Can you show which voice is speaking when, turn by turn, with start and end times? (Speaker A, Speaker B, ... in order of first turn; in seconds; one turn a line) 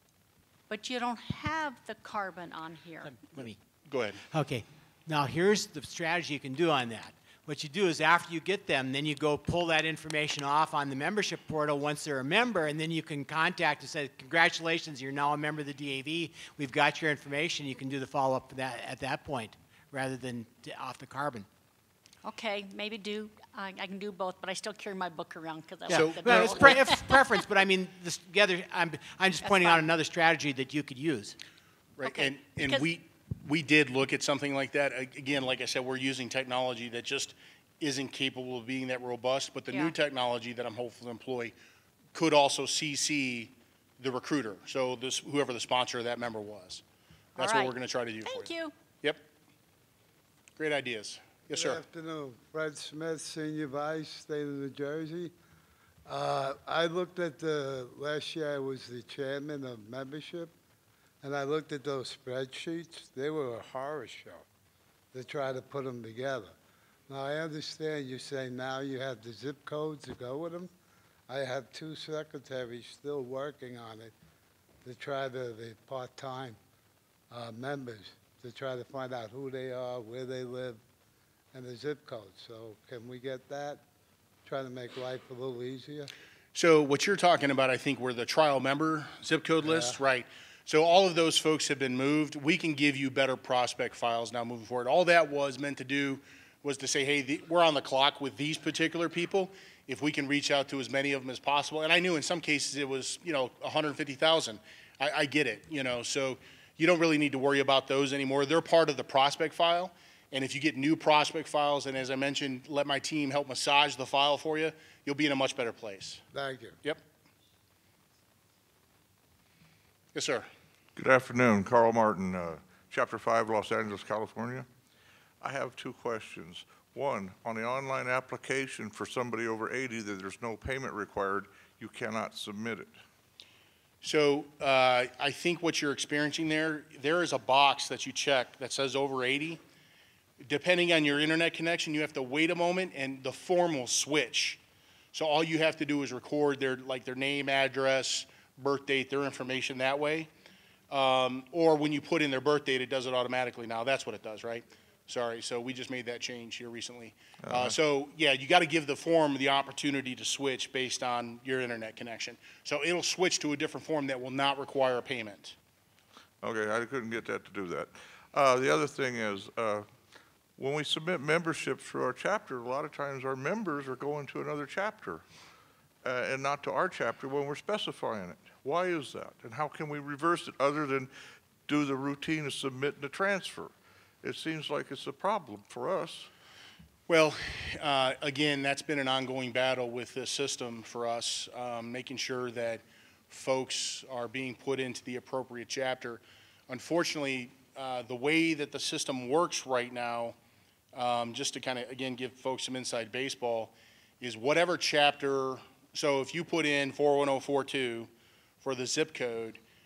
Speaker A: 0.7-3.1
Speaker B: 3.0-3.6
Speaker C: 3.4-4.2
Speaker B: 4.3-21.5
Speaker A: 22.2-27.3
Speaker B: 25.9-31.4
Speaker C: 25.9-26.8
Speaker A: 29.4-29.8
Speaker C: 32.0-41.5
Speaker A: 32.0-32.9
Speaker C: 42.1-46.8
Speaker C: 47.4-49.2
Speaker A: 47.4-48.7
Speaker C: 50.6-51.8
Speaker D: 51.5-55.3
Speaker D: 56.1-60.5
Speaker D: 61.2-64.5
Speaker D: 65.1-66.5
Speaker D: 67.1-70.7
Speaker D: 71.3-74.1
Speaker D: 74.8-76.6
Speaker D: 77.3-80.8
Speaker D: 81.5-83.8
Speaker D: 84.5-86.1
Speaker C: 86.5-116.2
Speaker D: 89.6-90.0
Speaker D: 116.3-116.8
Speaker C: 120.2-120.5
Speaker E: 121.0-124.7
Speaker E: 125.4-132.9
Speaker C: 134.0-139.6
Speaker C: 140.4-144.6
Speaker C: 145.1-150.3
Speaker C: 150.9-165.6
Speaker E: 157.4-157.8
Speaker E: 166.4-169.9
Speaker E: 170.6-175.2
Speaker E: 176.0-181.1
Speaker E: 181.7-186.3
Speaker C: 187.1-200.4
Speaker C: 200.9-208.1
Speaker C: 208.6-209.6